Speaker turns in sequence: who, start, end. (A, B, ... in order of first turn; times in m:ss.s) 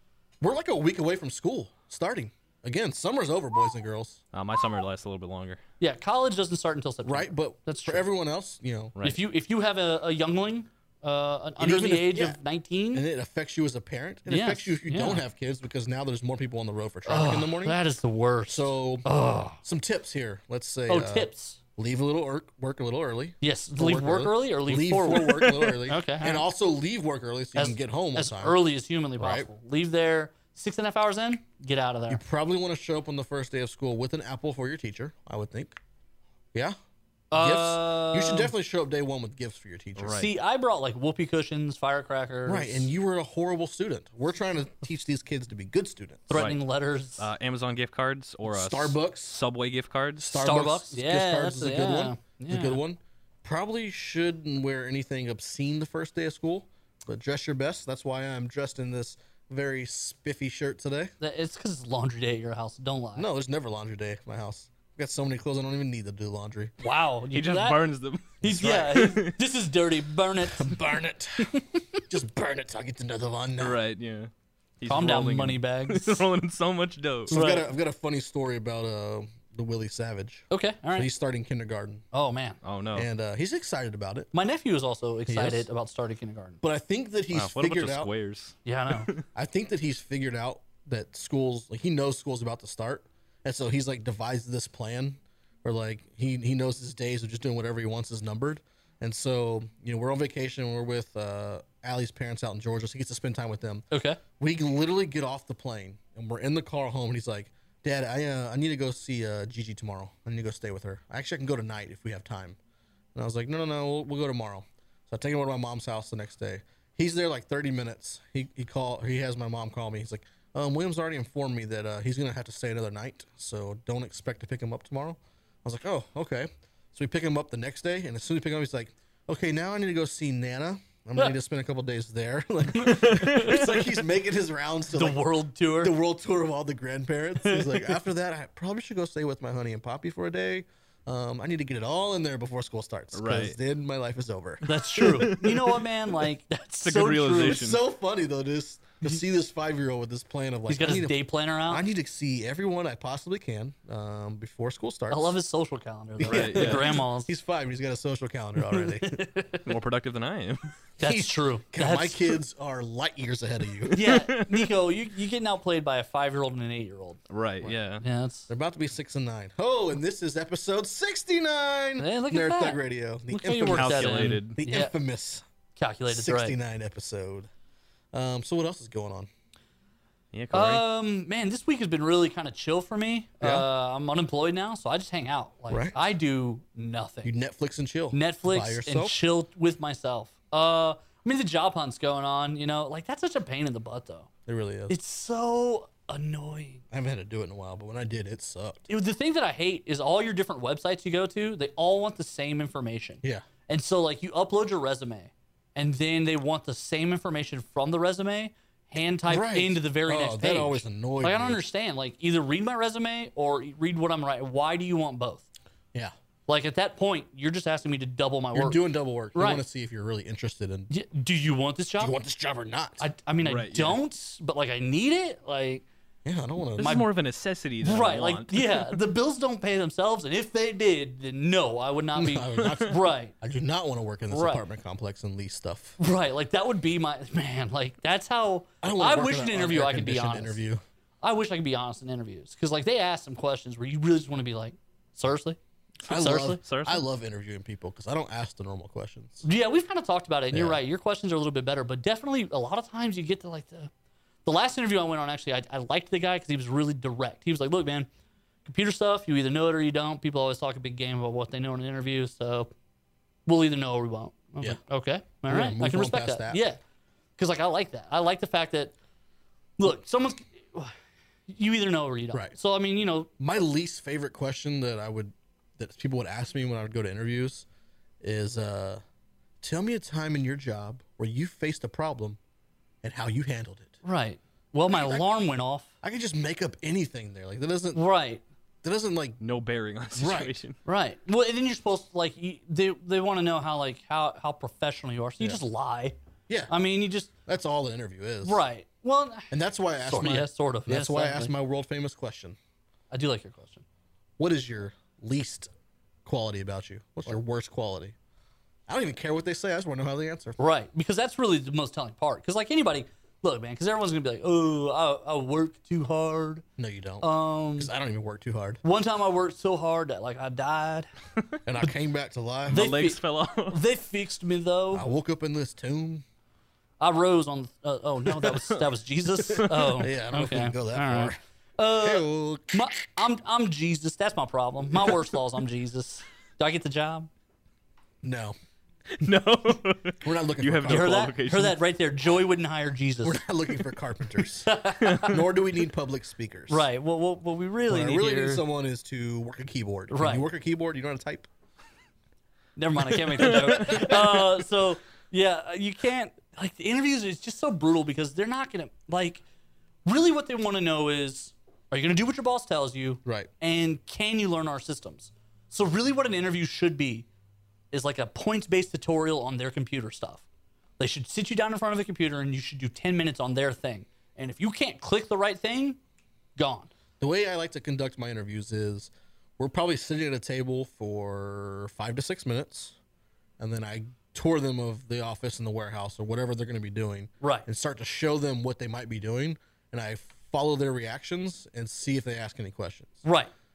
0:00.4-0:04.2 A
0:04.3-0:05.6 B
0:05.8-0:08.1 C
0:07.0-0:09.0 A
0:09.0-0:13.0 C
0:11.6-0:12.4 A
0:12.9-0:17.8 A
0:14.3-0:15.2 C
0:17.1-0:19.6 C
0:18.5-0:19.1 A
0:19.6-0:28.6 A
0:20.9-0:21.6 C
0:23.4-0:26.4 C
0:27.6-0:32.2 C
0:29.2-0:29.5 A
0:32.1-0:35.8 A
0:37.3-0:38.5 C
0:37.3-0:40.2 A
0:40.0-0:40.3 B
0:40.1-0:42.9 C
0:42.5-0:46.4 A
0:46.3-0:47.2 C
0:47.2-0:50.3 B
0:48.5-0:49.4 A
0:50.2-1:01.1 A
0:50.3-0:52.8 C
1:01.2-1:03.3 C
1:03.2-1:06.7 A
1:06.8-1:07.8 C
1:07.3-1:09.4 B
1:08.4-1:10.8 C
1:08.5-1:09.1 A
1:10.4-1:11.5 A
1:11.4-1:12.0 C
1:12.1-1:13.8 A
1:13.6-1:17.4 B
1:14.9-1:16.2 C
1:17.3-1:22.0 A
1:17.3-1:17.7 C
1:20.5-1:21.1 C
1:22.1-1:22.6 C
1:22.6-1:23.1 B
1:23.0-1:24.3 A
1:24.3-1:26.6 C
1:25.3-1:25.7 A
1:26.6-1:28.1 A
1:27.3-1:29.2 B
1:28.6-1:29.1 C
1:29.4-1:43.8 A
1:43.9-1:44.2 C
1:44.4-1:52.6 A
1:53.2-2:15.2 A
2:13.0-2:13.5 B
2:13.0-2:13.6 C
2:14.9-2:16.0 C
2:15.8-2:24.7 A
2:17.4-2:18.0 C
2:23.1-2:23.6 B
2:24.6-2:27.7 C
2:25.0-2:25.8 B
2:26.8-2:27.8 B
2:27.3-2:35.4 A
2:30.7-2:31.8 C
2:35.1-2:37.3 C
2:36.2-2:39.2 A
2:36.2-2:37.0 B
2:38.7-2:39.6 C
2:39.6-2:40.7 B
2:41.0-2:44.0 A
2:41.0-2:42.4 C
2:43.9-2:44.7 B
2:43.9-2:47.2 C
2:47.3-2:48.0 B
2:48.0-2:48.5 C
2:48.5-2:55.4 A
2:52.0-2:54.9 C
2:53.7-2:54.6 B
2:55.8-2:56.6 C
2:56.1-2:57.5 A
2:58.1-2:59.3 A
3:00.3-3:00.8 B
3:00.5-3:07.3 C
3:03.4-3:03.7 A
3:05.7-3:06.0 A
3:07.2-3:09.2 A
3:08.1-3:14.3 C
3:14.5-3:15.0 A
3:14.9-3:16.8 C
3:16.9-3:18.8 A
3:18.9-3:35.5 C
3:29.3-3:31.6 A
3:36.5-3:38.8 C
3:38.5-3:40.9 A
3:39.3-3:39.6 C
3:40.9-3:42.2 C
3:42.0-3:43.1 A
3:43.0-3:45.8 C
3:43.4-3:44.0 B
3:46.2-3:47.0 A
3:46.8-3:48.8 B
3:46.8-3:47.1 C
3:47.8-3:53.3 C
3:52.2-3:56.0 A
3:54.3-3:54.6 C
3:56.0-4:00.6 C
3:58.8-4:00.8 A
4:01.2-4:06.6 C
4:06.1-4:09.4 A
4:06.6-4:07.0 B
4:09.4-4:13.9 C
4:10.5-4:10.8 A
4:14.4-4:18.1 C
4:18.7-4:22.7 C
4:23.5-4:26.8 C
4:25.5-4:26.6 A
4:27.4-4:28.9 C
4:29.8-4:30.9 C
4:31.5-4:33.3 C
4:33.4-4:37.7 A
4:38.2-4:39.0 A
4:39.6-4:42.4 A
4:43.0-4:44.0 A
4:44.0-4:45.9 C
4:44.9-4:45.3 A
4:46.0-4:48.0 A
4:47.9-4:48.4 C
4:48.8-4:49.4 A
4:49.4-4:50.8 B
4:50.1-4:50.6 A
4:50.8-4:56.2 C
4:56.7-4:57.3 C
4:57.5-4:58.6 A
4:58.4-4:59.5 C
4:59.5-5:02.6 A
5:00.0-5:01.5 C
5:03.1-5:03.8 C
5:04.4-5:05.7 A
5:06.2-5:08.2 A
5:08.9-5:10.6 A
5:10.6-5:16.6 C
5:16.8-5:18.8 A
5:17.2-5:17.9 C
5:18.8-5:21.1 C
5:21.7-5:22.9 A
5:22.7-5:23.8 B
5:22.7-5:25.0 C
5:24.9-5:26.2 A
5:27.0-5:37.3 C
5:29.6-5:31.4 A
5:31.9-5:32.9 A
5:38.2-5:38.6 A
5:39.1-5:41.8 B
5:40.2-5:41.3 A
5:40.9-5:43.4 C
5:43.2-5:46.9 A
5:44.7-5:45.4 C
5:46.7-5:48.6 C
5:47.9-5:51.5 A
5:50.1-5:50.5 C
5:52.8-5:59.4 C
5:53.4-5:54.2 A
6:00.1-6:07.3 C
6:03.2-6:03.5 A
6:07.9-6:10.4 C
6:11.0-6:16.0 C
6:16.6-6:16.9 C
6:17.2-6:23.0 A
6:23.6-6:33.2 A
6:27.4-6:27.7 C
6:33.2-6:33.5 C